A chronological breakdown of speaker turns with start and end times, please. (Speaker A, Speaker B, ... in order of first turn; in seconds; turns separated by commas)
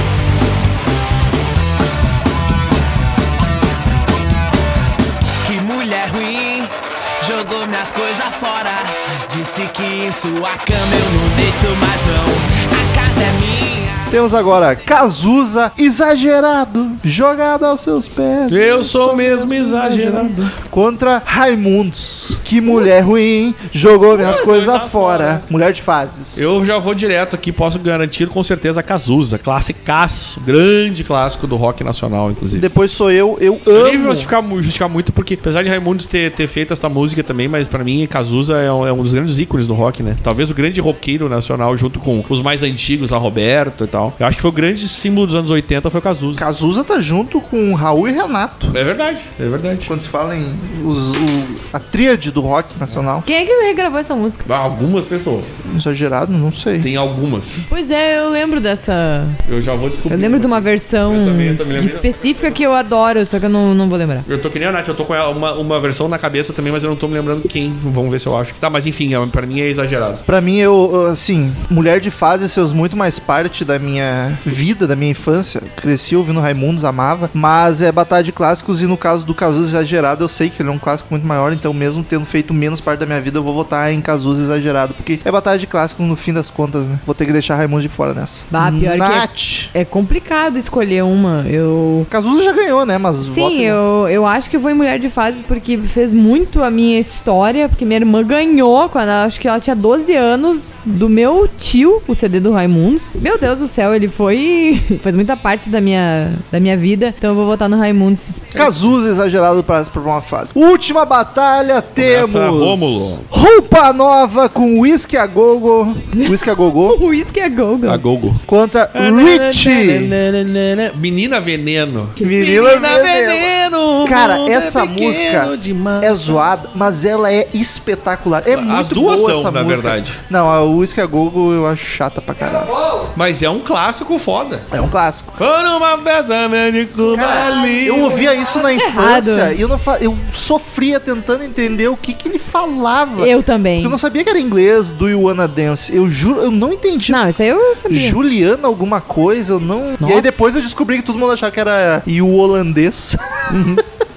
Speaker A: 5.4-14.0, Speaker B: 14.1-26.5, Speaker C: 18.5-20.5, Speaker C: 24.1-25.4, Speaker C: 26.4-32.7, Speaker B: 32.5-34.3, Speaker C: 33.7-46.4, Speaker B: 46.4-48.8, Speaker C: 48.7-49.9, Speaker B: 49.9-53.3, Speaker D: 53.2-54.5, Speaker C: 54.5-55.6, Speaker B: 55.7-56.9, Speaker C: 56.8-57.7, Speaker D: 57.7-59.4, Speaker C: 59.5-62.1, Speaker D: 60.1-64.2, Speaker C: 64.3-70.2, Speaker B: 70.3-89.7, Speaker D: 88.5-92.1, Speaker B: 92.1-93.8, Speaker D: 93.2-108.6, Speaker B: 108.5-117.0, Speaker C: 112.0-113.2, Speaker D: 116.9-118.0, Speaker C: 117.9-118.4, Speaker B: 118.5-120.1, Speaker C: 118.9-126.4, Speaker B: 122.2-123.5, Speaker B: 124.0-132.7, Speaker C: 128.5-130.2, Speaker C: 133.1-134.7, Speaker B: 134.7-135.4, Speaker C: 135.4-138.2, Speaker B: 137.1-147.2, Speaker D: 138.2-139.6, Speaker D: 143.2-144.0, Speaker D: 147.1-148.2, Speaker B: 147.9-153.8, Speaker D: 150.0-150.4, Speaker C: 153.5-153.8